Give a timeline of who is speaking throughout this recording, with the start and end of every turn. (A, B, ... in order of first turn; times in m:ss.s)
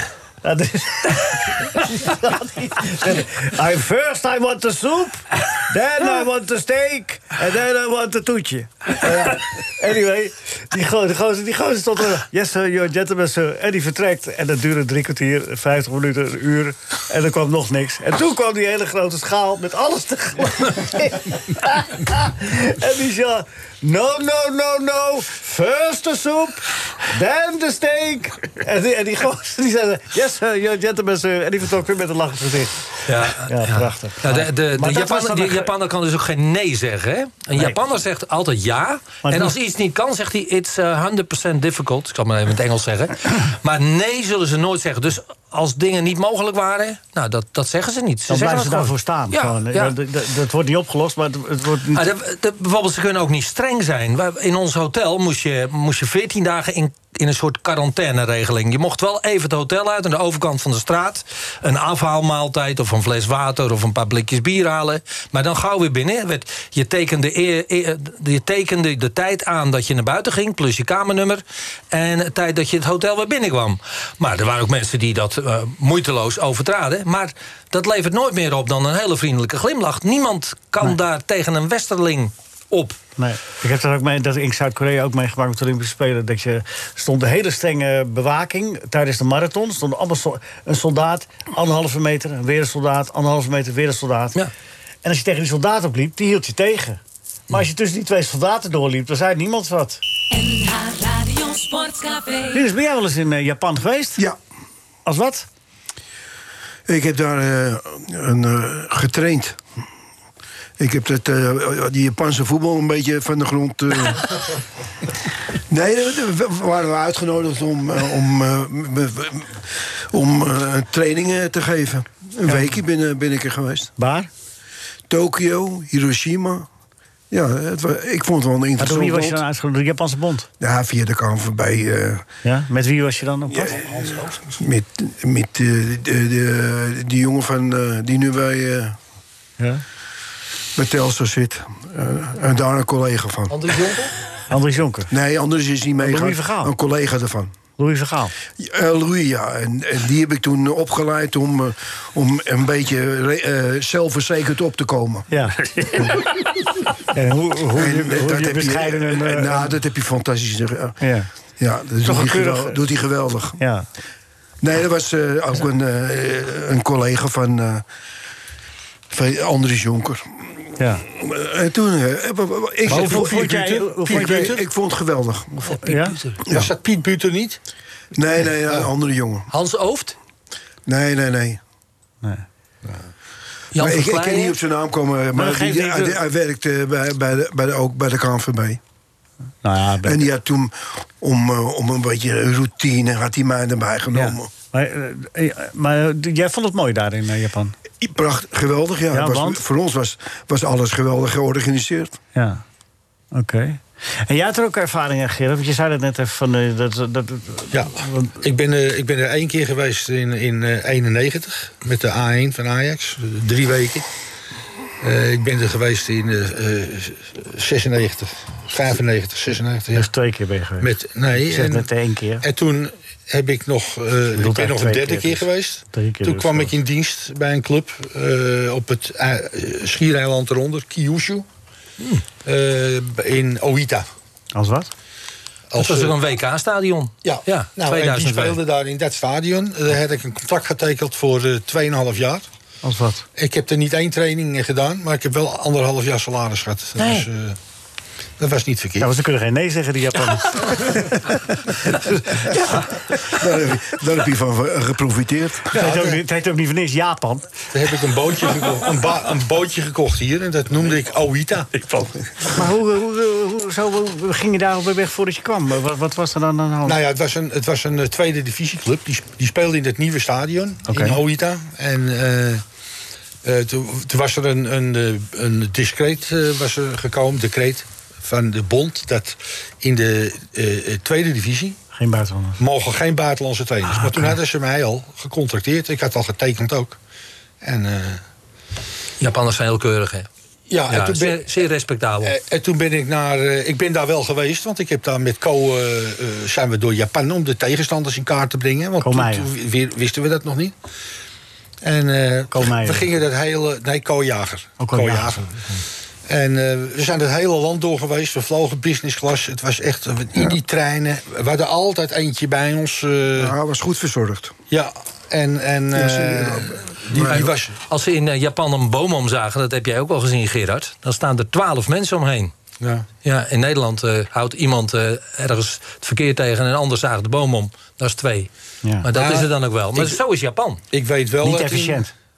0:00.4-0:35.7 A
0:33.1-0:49.9 B
0:37.5-0:37.8 A
0:39.2-0:39.5 A
0:48.3-0:52.0 A
0:51.9-1:23.0 B
1:23.2-1:34.4 A
1:35.0-1:40.0 A
1:40.3-1:42.6 C
1:42.5-1:44.2 A
1:45.0-1:45.5 A
1:46.9-1:49.6 D
1:50.8-1:54.4 D
1:55.7-2:03.9 D
2:04.0-2:04.3 A
2:05.1-2:06.7 D
2:07.3-2:09.4 D
2:08.8-2:10.5 A
2:10.6-2:12.2 D
2:12.4-2:14.1 A
2:13.5-2:19.0 D
2:20.8-2:23.8 D
2:23.5-2:24.1 B
2:24.5-2:25.1 A
2:25.1-2:27.5 D
2:26.0-2:26.7 A
2:27.8-2:28.3 A
2:28.6-2:35.3 D
2:35.3-2:36.0 A
2:36.0-2:36.2 D
2:37.1-2:39.7 A
2:37.7-2:41.0 D
2:41.0-2:41.3 A
2:41.6-2:43.6 D
2:42.0-2:42.8 A
2:43.6-2:43.8 A
2:44.6-2:47.8 D
2:49.1-2:50.4 D
2:50.8-2:51.0 A
2:51.0-2:55.6 D
2:52.9-2:54.6 E
2:52.9-2:54.6 A
2:55.6-2:56.4 B
2:55.8-2:56.2 A
2:56.4-2:56.7 D
2:56.5-2:57.6 E
2:58.1-2:59.5 D
2:59.5-3:00.2 B
3:00.8-3:01.6 D
3:03.7-3:04.6 B
3:03.8-3:08.8 D
3:05.3-3:06.2 A
3:09.6-3:10.2 A
3:10.0-3:14.5 D
3:14.1-3:17.7 A
3:18.0-3:22.2 D
3:19.1-3:19.6 A
3:22.3-3:22.6 A
3:23.3-3:28.3 A
3:27.7-3:34.1 E
3:35.0-3:40.1 E
3:39.9-3:42.4 A
3:40.8-3:41.9 E
3:42.4-3:51.4 E
3:44.3-3:46.7 A
3:52.4-3:54.1 E
3:54.5-3:54.9 A
3:55.7-3:56.2 E
3:55.8-3:58.6 B
3:57.2-4:02.4 E
4:02.8-4:03.2 A
4:03.4-4:07.6 E
4:08.4-4:09.1 E
4:09.0-4:12.8 A
4:12.6-4:12.8 B
4:13.2-4:15.7 D
4:15.7-4:16.2 E
4:15.7-4:17.5 A
4:17.7-4:22.1 E
4:22.4-4:27.0 A
4:26.8-4:32.6 E
4:30.9-4:31.2 A
4:33.4-4:41.8 E
4:41.9-4:42.6 A
4:42.6-4:47.0 E
4:47.6-4:48.2 E
4:49.2-4:50.3 B
4:50.7-4:51.5 E
4:50.9-4:52.4 B
4:52.2-5:00.7 E
4:59.0-4:59.5 A
5:01.8-5:05.5 E
5:02.5-5:03.1 A
5:04.8-5:05.8 A
5:06.3-5:13.5 E
5:13.4-5:14.5 D
5:14.7-5:17.8 E
5:15.9-5:17.5 D
5:17.2-5:22.5 B
5:22.8-5:23.1 E
5:23.2-5:28.5 B
5:29.0-5:30.8 B
5:29.1-5:30.2 E
5:30.9-5:32.0 E
5:31.4-5:32.1 A